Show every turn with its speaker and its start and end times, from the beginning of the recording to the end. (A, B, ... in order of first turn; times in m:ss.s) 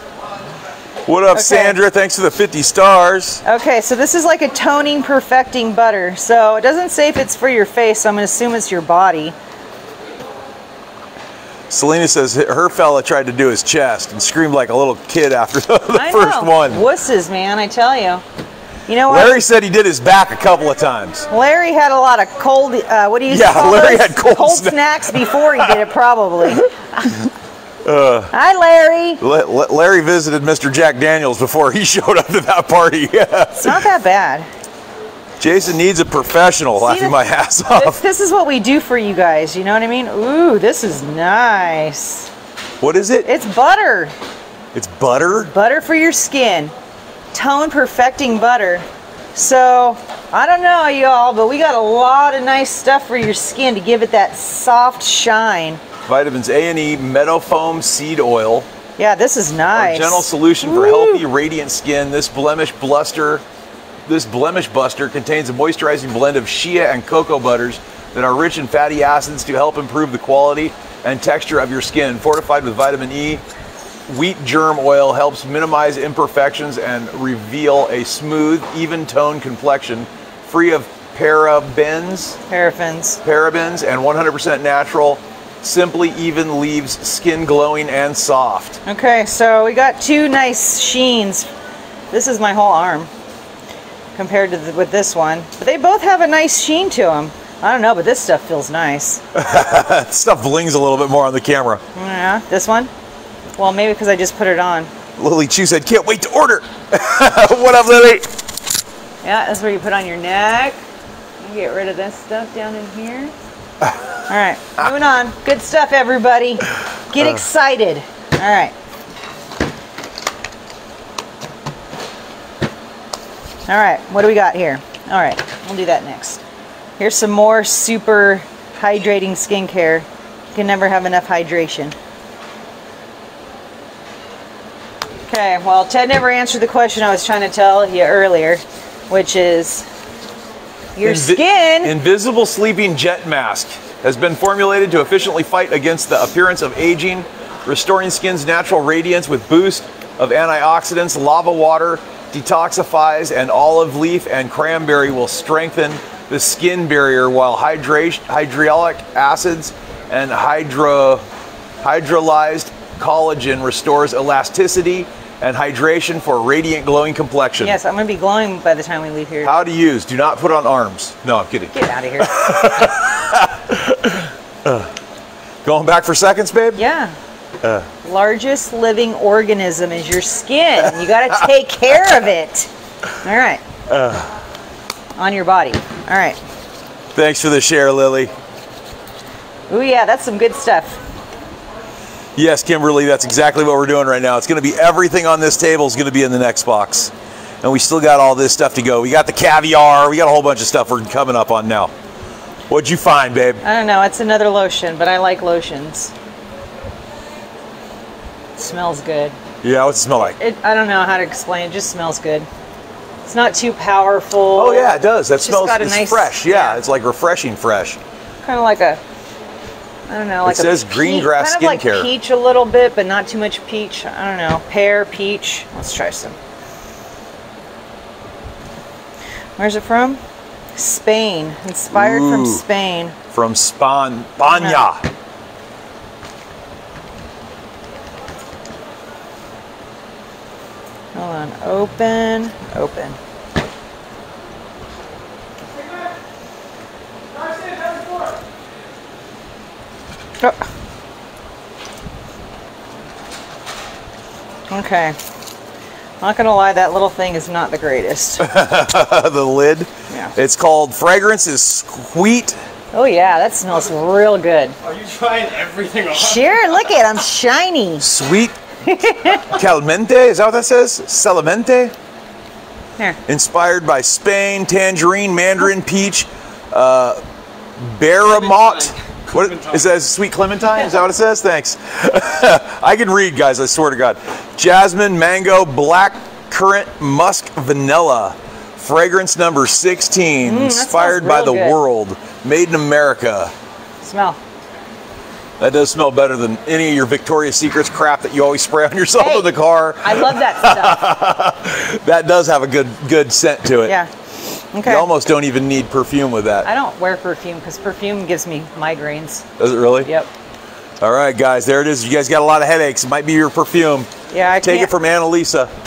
0:01.1-0:03.4 A
0:01.3-0:01.8 B
0:03.4-0:09.4 B
0:11.7-0:16.8 A
0:16.0-0:18.2 B
0:18.9-0:19.4 B
0:19.1-0:21.3 A
0:21.3-0:27.2 B
0:23.3-0:25.8 A
0:27.8-0:28.3 A
0:28.3-0:29.2 B
0:29.2-0:33.9 A
0:33.6-0:34.5 B
0:35.4-0:38.0 A
0:36.8-0:42.3 B
0:42.8-0:43.3 A
0:43.2-0:44.1 B
0:44.7-0:45.5 A
0:45.4-0:46.7 B
0:47.3-0:55.8 B
0:56.1-0:58.7 A
0:59.0-1:01.2 B
0:59.7-1:03.4 A
1:04.1-1:13.4 A
1:14.1-1:22.4 A
1:22.5-1:23.2 B
1:23.2-1:28.8 A
1:28.9-1:31.5 B
1:32.1-1:33.1 B
1:34.2-1:39.2 B
1:39.3-1:41.8 A
1:42.0-1:42.9 B
1:43.6-1:44.9 B
1:45.2-1:48.3 A
1:49.2-1:50.8 B
1:51.4-1:53.3 B
1:54.3-1:58.7 B
2:03.7-2:06.4 B
2:07.0-2:12.0 B
2:15.3-2:19.9 B
2:21.0-2:22.0 B
2:21.0-2:41.2 A
2:41.8-2:47.8 A
2:47.6-2:49.5 B
2:49.4-2:54.9 A
2:51.7-2:52.5 B
2:55.6-2:56.8 A
2:56.8-2:57.2 B
2:57.6-2:57.9 A
2:58.0-3:02.7 B
3:03.2-3:03.6 B
3:03.9-3:04.4 A
3:05.2-3:06.4 B
3:07.1-3:08.3 A
3:09.7-3:11.0 B
3:12.4-3:21.9 A
3:22.7-3:23.6 A
3:23.6-3:26.1 B
3:28.6-3:29.4 B
3:29.6-3:30.4 A
3:30.4-3:32.5 B
3:33.3-3:36.8 B
3:34.6-3:38.0 A
3:38.4-3:39.0 B
3:40.1-3:46.4 B
3:40.4-3:42.1 A
3:49.6-3:50.2 B
3:50.8-3:53.2 B
3:51.9-3:52.6 A
3:53.3-3:55.0 A
3:54.5-3:54.9 B
4:01.2-4:03.2 B
4:14.7-4:15.2 B
4:16.2-4:18.5 B
4:18.4-4:22.6 A
4:22.9-4:24.8 B
4:24.9-4:26.8 C
4:26.1-4:28.0 B
4:28.0-4:28.6 A
4:28.8-4:29.5 B
4:29.4-4:31.9 A
4:33.3-4:37.2 A
4:37.8-4:53.5 A
4:38.3-4:39.7 C
4:50.4-4:51.8 B
4:54.0-4:54.4 B
4:55.6-5:04.0 A
4:59.2-4:59.5 B
5:00.0-5:01.0 B
5:04.7-5:05.1 B
5:04.8-5:06.7 A
5:06.6-5:09.4 B
5:09.6-5:10.1 A
5:10.0-5:10.3 B
5:11.0-5:14.1 A
5:14.3-5:14.9 B
5:14.6-5:15.7 A